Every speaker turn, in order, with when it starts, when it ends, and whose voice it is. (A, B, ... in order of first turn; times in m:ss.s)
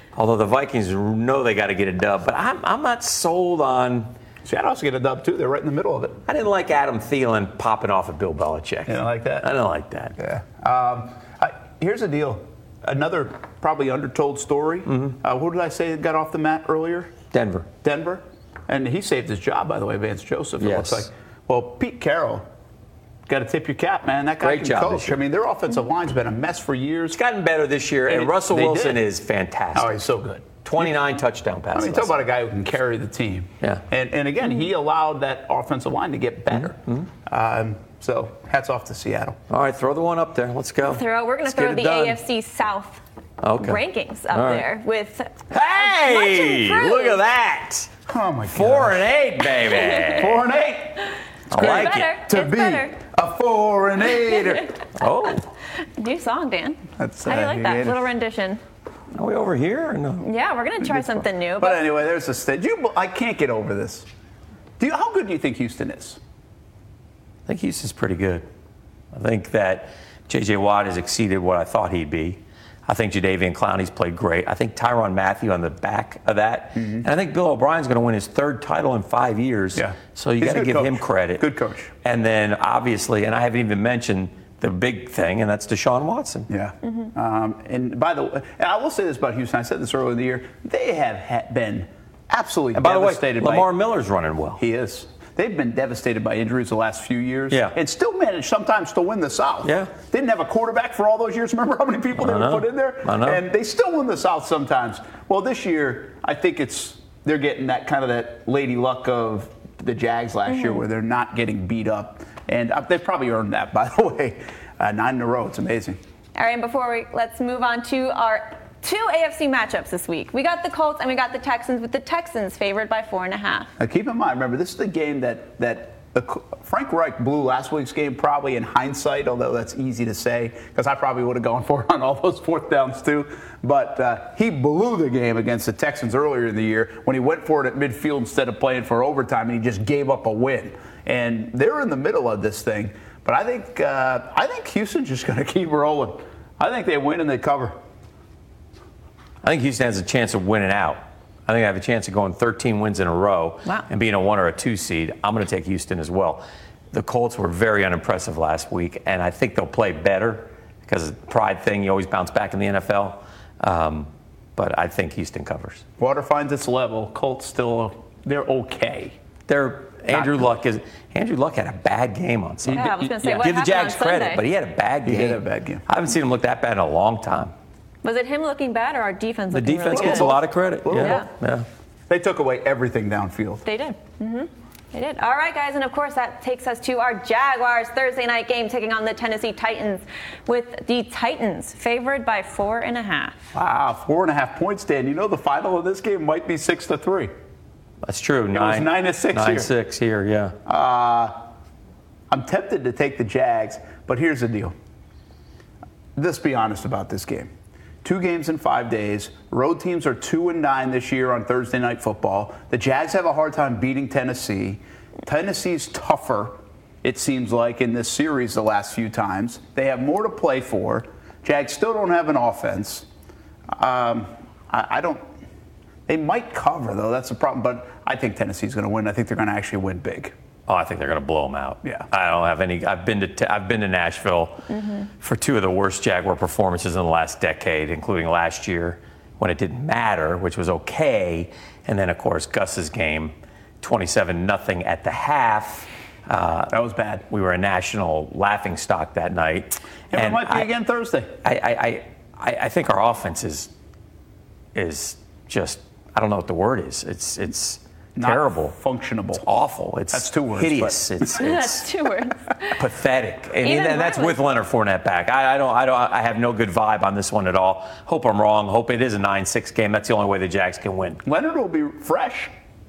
0:00.1-0:04.1 A
0:04.4-0:06.2 B
0:06.3-0:10.2 A
0:08.9-0:09.5 B
0:10.2-0:17.2 B
0:14.9-0:15.2 A
0:17.3-0:17.7 A
0:17.8-0:22.5 B
0:20.6-0:21.1 A
0:23.3-0:27.2 B
0:24.4-0:25.2 A
0:27.1-0:30.0 A
0:28.1-0:29.0 B
0:29.7-0:30.9 B
0:30.6-0:32.2 A
0:31.7-0:39.4 B
0:36.6-0:37.1 A
0:39.5-0:42.2 A
0:40.8-0:43.0 C
0:43.4-0:44.6 A
0:43.6-0:47.2 C
0:45.5-0:47.9 A
0:48.1-0:49.1 B
0:48.5-0:50.4 A
0:49.7-0:50.2 C
0:50.1-0:54.8 B
0:51.5-0:52.2 A
0:51.5-0:53.0 C
0:55.0-0:55.5 A
0:56.0-0:58.6 C
0:57.0-0:58.1 B
0:59.1-1:00.3 A
1:00.2-1:01.8 C
1:01.6-1:04.1 B
1:04.8-1:06.2 B
1:07.5-1:08.5 A
1:09.1-1:21.5 A
1:16.8-1:17.1 B
1:19.8-1:21.9 B
1:22.0-1:26.5 A
1:26.5-1:33.7 B
1:32.7-1:34.6 A
1:34.6-1:56.0 B
1:39.6-1:39.9 A
1:42.2-1:43.4 A
1:50.5-1:50.8 C
1:56.4-2:03.7 C
2:03.8-2:27.8 B
2:29.4-2:45.8 A
2:46.0-2:49.2 B
2:49.5-2:57.5 A
2:50.1-2:50.5 B
2:52.6-2:53.5 B
2:52.7-2:54.4 C
2:55.0-2:55.8 B
2:58.0-3:00.4 C
2:59.5-3:01.7 A
2:59.9-3:01.2 B
3:01.0-3:01.3 C
3:02.1-3:03.6 B
3:03.6-3:13.5 C
3:13.5-3:17.3 B
3:18.0-3:20.6 A
3:18.5-3:19.7 B
3:20.7-3:21.4 B
3:22.3-3:24.8 B
3:26.2-3:27.5 B
3:28.0-3:43.1 B
3:43.7-3:45.3 B
3:46.1-3:50.3 B
3:50.7-4:06.8 A
4:06.7-4:07.2 B
4:07.3-4:10.7 A
4:10.1-4:11.3 B
4:11.4-4:13.7 A
4:14.8-4:18.7 A
4:18.2-4:19.4 B
4:19.4-4:21.9 A
4:20.1-4:21.1 B
4:21.4-4:22.8 C
4:22.8-4:31.2 A
4:23.6-4:24.4 C
4:31.2-4:32.5 B